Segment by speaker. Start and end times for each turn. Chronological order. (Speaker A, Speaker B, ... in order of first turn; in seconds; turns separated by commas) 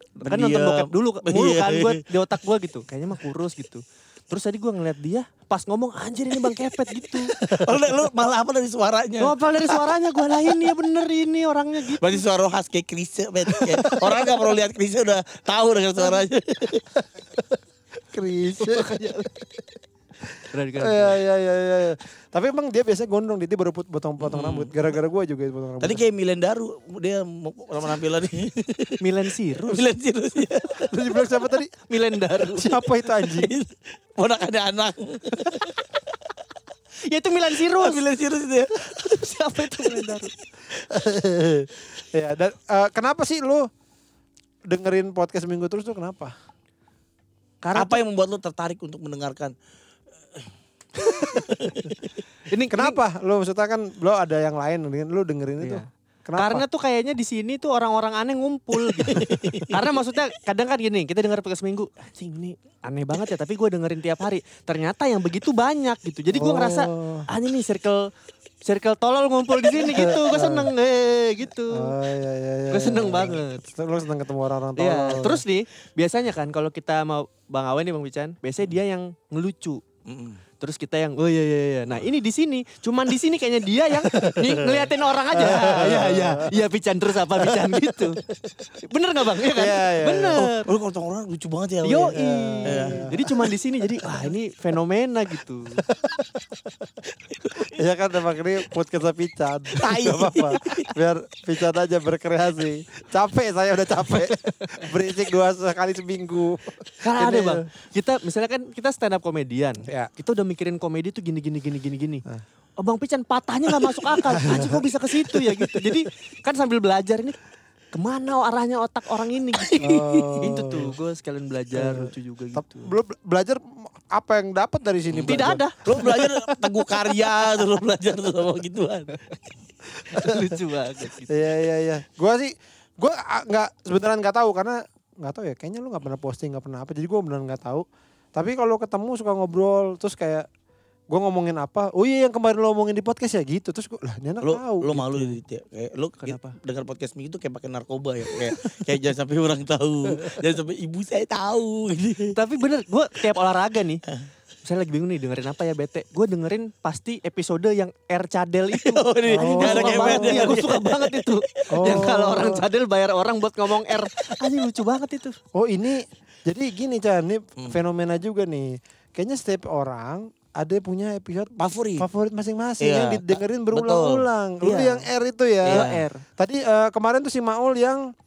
Speaker A: 0.2-7.3, Speaker B: 0.2-2.0, Speaker B: 7.3-9.8, Speaker A: 9.2-12.2, Speaker B: 12.0-16.9, Speaker C: 18.1-18.9, Speaker A: 18.6-19.3, Speaker A: 20.5-21.2, Speaker C: 20.8-26.0, Speaker B: 24.2-24.7, Speaker B: 25.8-29.0, Speaker A: 29.0-29.8, Speaker B: 29.6-30.9, Speaker C: 30.8-31.7, Speaker A: 31.8-32.8, Speaker C: 32.6-33.5, Speaker B: 33.2-35.8, Speaker A: 37.1-38.0, Speaker B: 37.8-38.9, Speaker A: 38.8-40.3, Speaker C: 40.9-43.7, Speaker C: 44.7-46.3, Speaker A: 47.6-48.0, Speaker B: 47.8-49.5, Speaker B: 51.2-51.9, Speaker A: 52.5-53.0, Speaker C: 52.7-56.6, Speaker A: 55.6-55.9, Speaker A: 56.4-68.1, Speaker B: 59.1-59.8, Speaker C: 66.3-67.3, Speaker A: 68.6-71.9, Speaker C: 69.8-70.7, Speaker C: 71.7-75.4, Speaker A: 72.7-73.6, Speaker A: 74.8-79.8, Speaker B: 80.1-80.4, Speaker A: 80.6-88.2, Speaker B: 84.2-84.9, Speaker C: 85.3-86.6, Speaker A: 88.8-90.7, Speaker C: 89.5-90.5, Speaker B: 90.4-93.3, Speaker A: 91.8-95.8, Speaker C: 92.1-93.2, Speaker B: 97.3-97.8, Speaker C: 97.6-107.7, Speaker B: 99.8-100.9, Speaker A: 104.6-104.9, Speaker A: 107.0-112.2, Speaker A: 112.8-117.4, Speaker C: 114.3-114.8, Speaker A: 117.9-123.0, Speaker C: 119.8-121.0, Speaker C: 121.8-125.6, Speaker B: 125.1-129.2, Speaker A: 125.3-127.6, Speaker A: 129.1-129.4, Speaker A: 130.0-131.4, Speaker C: 130.1-130.6, Speaker C: 131.3-140.5, Speaker C: 141.1-145.4, Speaker B: 144.4-152.3, Speaker A: 146.2-146.6, Speaker A: 152.3-154.0, Speaker A: 154.6-165.4, Speaker B: 158.7-162.1, Speaker C: 159.3-160.6, Speaker C: 161.7-162.7, Speaker C: 165.5-178.1, Speaker B: 171.6-172.1, Speaker B: 172.8-174.3, Speaker A: 174.6-175.1, Speaker A: 175.6-176.2, Speaker B: 175.7-176.0